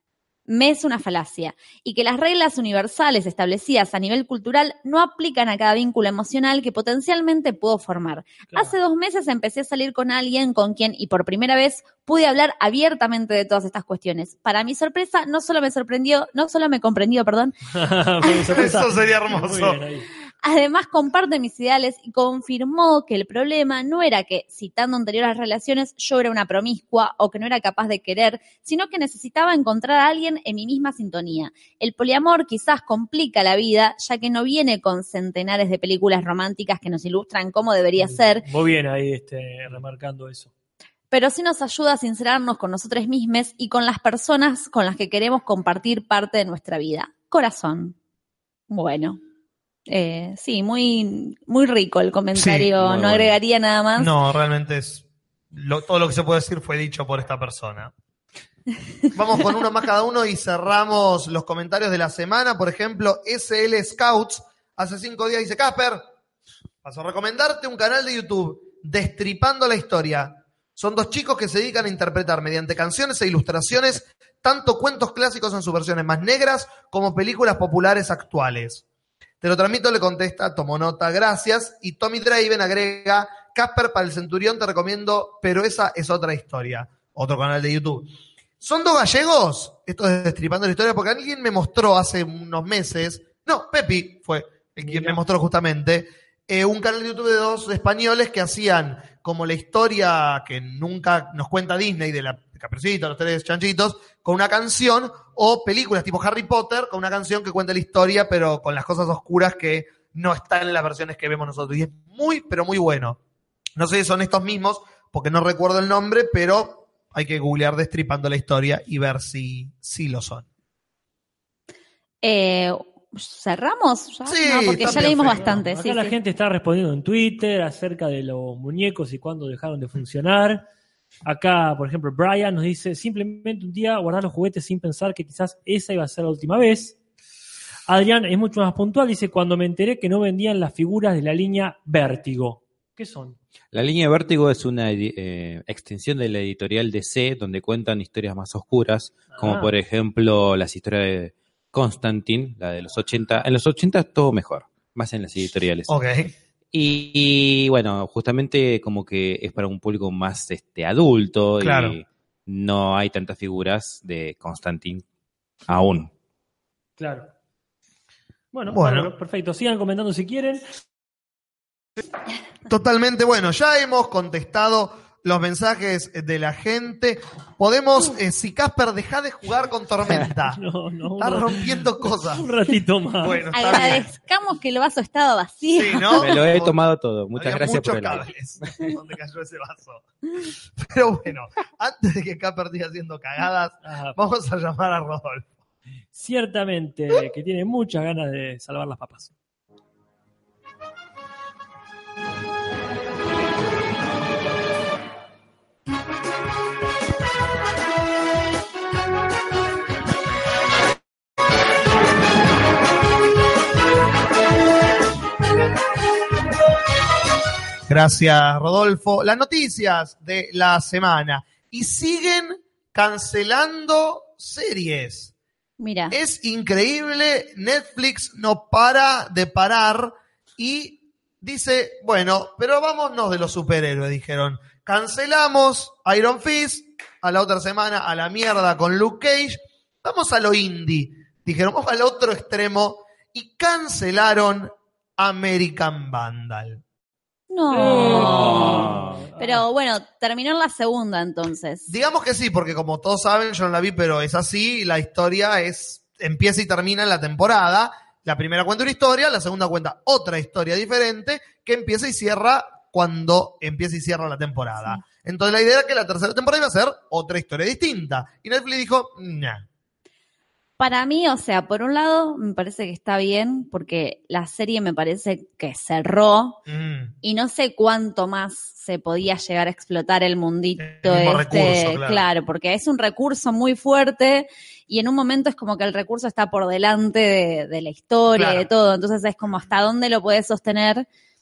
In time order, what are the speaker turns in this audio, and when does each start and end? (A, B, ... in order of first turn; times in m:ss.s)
0:00.5-0:17.5 A
0:17.7-0:20.0 B
0:18.5-0:19.8 C
0:20.4-0:38.4 A
0:38.0-0:40.5 B
0:41.1-0:47.9 A
0:48.7-0:49.2 A
0:49.9-0:54.1 A
0:52.3-0:52.7 C
0:52.8-0:53.3 D
0:54.0-0:57.9 C
0:59.1-1:06.0 C
1:06.8-1:18.8 C
1:19.4-1:53.2 C
1:34.8-1:35.2 B
1:53.8-2:00.5 C
2:02.2-2:06.2 A
2:04.2-2:05.6 C
2:04.8-2:10.6 B
2:11.2-2:17.0 B
2:17.9-2:23.4 B
2:23.7-2:35.9 D
2:29.3-2:29.7 B
2:35.9-2:36.3 C
2:36.7-2:45.0 D
2:41.6-2:42.0 C
2:45.7-2:46.1 D
2:47.0-2:47.3 B
2:48.5-2:50.6 B
2:48.7-2:49.1 C
2:52.7-3:00.6 C
3:00.5-3:03.4 B
3:01.2-3:02.5 C
3:03.2-3:04.0 C
3:03.5-3:06.3 A
3:05.7-3:06.8 C
3:06.2-3:08.3 D
3:07.3-3:15.5 C
3:13.8-3:14.2 B
3:16.1-3:19.3 B
3:37.9-3:45.3 C
3:45.8-3:46.2 A
3:46.1-4:06.8 C
4:07.5-4:11.9 A
4:07.7-4:09.6 B
4:08.0-4:09.2 D
4:11.9-4:29.7 C
4:30.8-4:36.6 A
4:36.7-4:37.1 C
4:37.2-4:51.1 A
4:40.8-4:42.2 C
4:48.3-4:48.7 C